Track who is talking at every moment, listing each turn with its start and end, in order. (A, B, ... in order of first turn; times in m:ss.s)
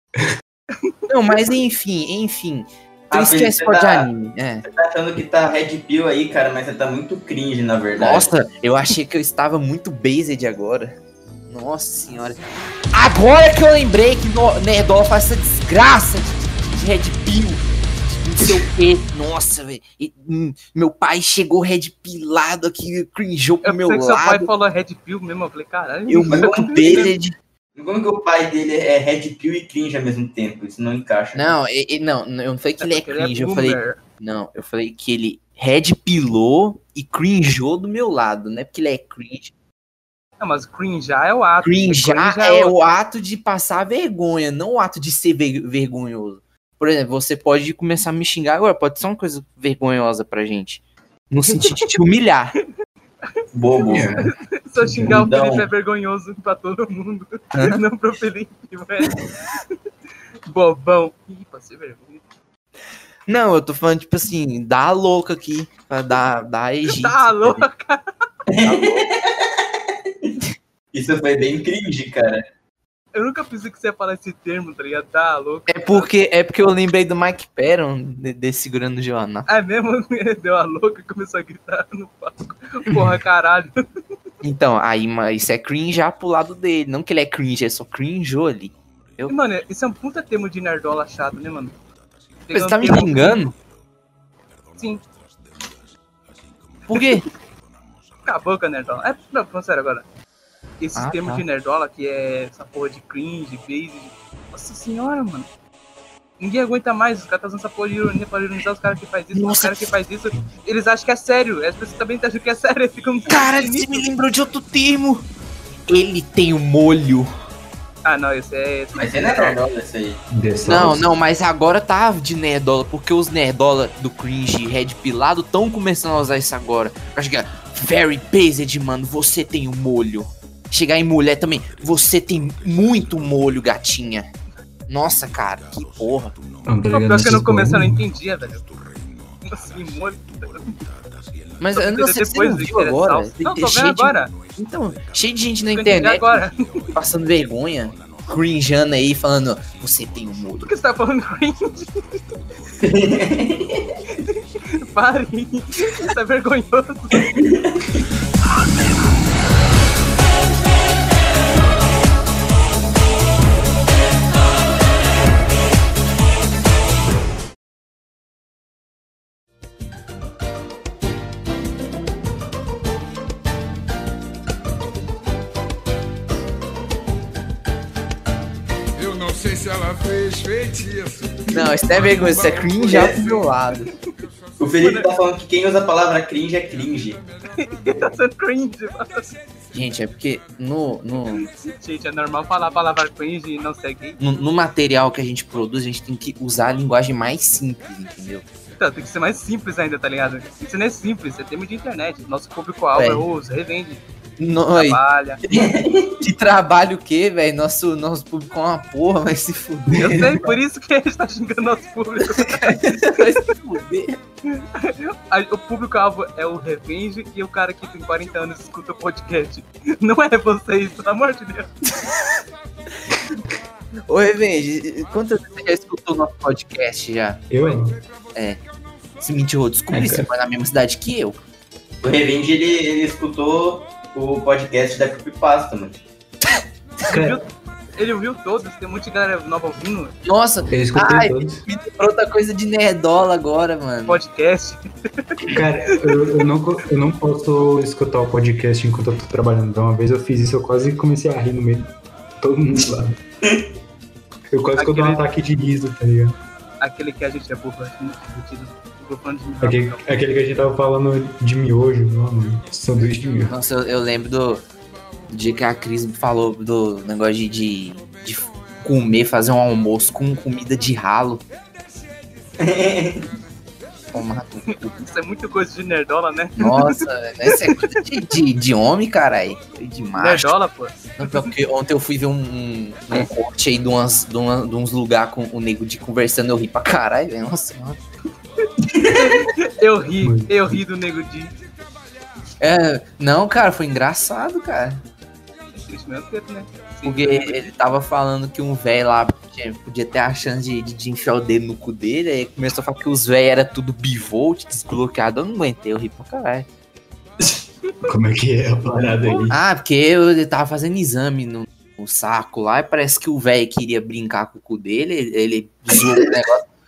0:00.7-0:01.3 A
0:01.1-0:04.6 B
0:03.1-0:04.1 C
0:04.6-0:08.3 C
0:08.0-0:11.0 B
0:11.5-0:12.4 B
0:12.9-0:24.5 B
0:23.6-0:27.1 A
0:26.1-0:27.4 B
0:26.3-0:27.1 C
0:27.8-0:31.5 C
0:31.3-0:39.5 B
0:32.8-0:34.0 A
0:40.4-0:42.8 A
0:41.6-0:52.5 B
0:51.6-0:51.9 A
0:53.5-0:54.1 C
0:53.9-0:54.3 D
0:54.0-0:59.2 A
0:54.8-0:55.2 D
0:55.0-0:55.6 C
0:57.5-0:57.8 B
1:00.5-1:02.2 A
1:03.3-1:07.6 B
1:06.8-1:08.0 A
1:08.5-1:09.6 C
1:08.6-1:09.0 B
1:10.9-1:12.4 C
1:13.1-1:16.1 A
1:15.7-1:19.5 B
1:19.5-1:23.8 A
1:24.4-1:29.3 B
1:29.3-1:31.8 A
1:32.4-1:33.4 A
1:32.5-1:33.5 B
1:34.7-1:35.0 A
1:36.9-1:37.3 B
1:36.9-1:37.2 A
1:38.2-1:40.0 A
1:40.8-1:45.5 A
1:41.0-1:41.4 B
1:46.4-1:54.1 A
1:49.3-1:49.9 B
1:53.3-1:55.2 B
1:55.9-1:57.3 B
1:58.0-1:59.6 A
1:58.9-2:00.2 C
2:00.3-2:01.0 D
2:00.6-2:14.3 B
2:14.9-2:16.3 B
2:16.6-2:18.0 D
2:16.9-2:18.7 A
2:19.4-2:20.8 A
2:21.6-2:26.4 B
2:21.7-2:24.3 A
2:25.7-2:27.0 A
2:26.9-2:30.7 B
2:30.6-2:32.3 A
2:32.8-2:33.9 C
2:34.3-2:37.3 A
2:37.2-2:37.8 C
2:59.0-3:03.1 E
3:01.5-3:03.9 B
3:02.9-3:03.4 C
3:04.6-3:07.2 C
3:04.8-3:05.1 A
3:07.6-3:09.4 A
3:09.7-3:11.5 B
3:11.4-3:14.2 A
3:14.2-3:18.4 B
3:18.8-3:24.0 A
3:23.0-3:23.2 B
3:24.4-3:25.0 B
3:24.7-3:25.4 A
3:25.5-3:26.1 C
3:26.2-3:30.5 B
3:29.9-3:33.5 A
3:32.2-3:34.2 B
3:34.5-3:41.7 A
3:44.1-3:47.5 B
3:47.5-3:48.0 D
3:48.3-3:48.6 B
3:49.2-3:51.4 B
3:49.9-3:50.3 D
3:52.0-3:56.0 C
3:57.1-3:57.4 D
3:57.1-4:00.1 A
4:00.2-4:04.2 B
4:00.7-4:01.6 D
4:04.1-4:05.3 A
4:05.5-4:13.2 D
4:05.9-4:06.4 A
4:14.5-4:16.4 D
4:14.8-4:15.2 A
4:16.8-4:20.0 A
4:19.6-4:23.5 D
4:23.5-4:24.6 B
4:25.3-4:31.4 B
4:32.6-4:33.3 C
4:34.1-4:35.0 B
4:34.7-4:38.0 A
4:36.6-4:40.5 B
4:40.2-4:41.5 A
4:41.2-4:48.0 B
4:48.8-4:49.3 C
4:49.1-4:51.5 A
4:50.2-4:50.8 D
4:52.6-4:55.0 B
4:55.7-4:57.6 A
4:57.0-5:06.7 B
5:08.0-5:09.6 D
5:09.5-5:16.6 B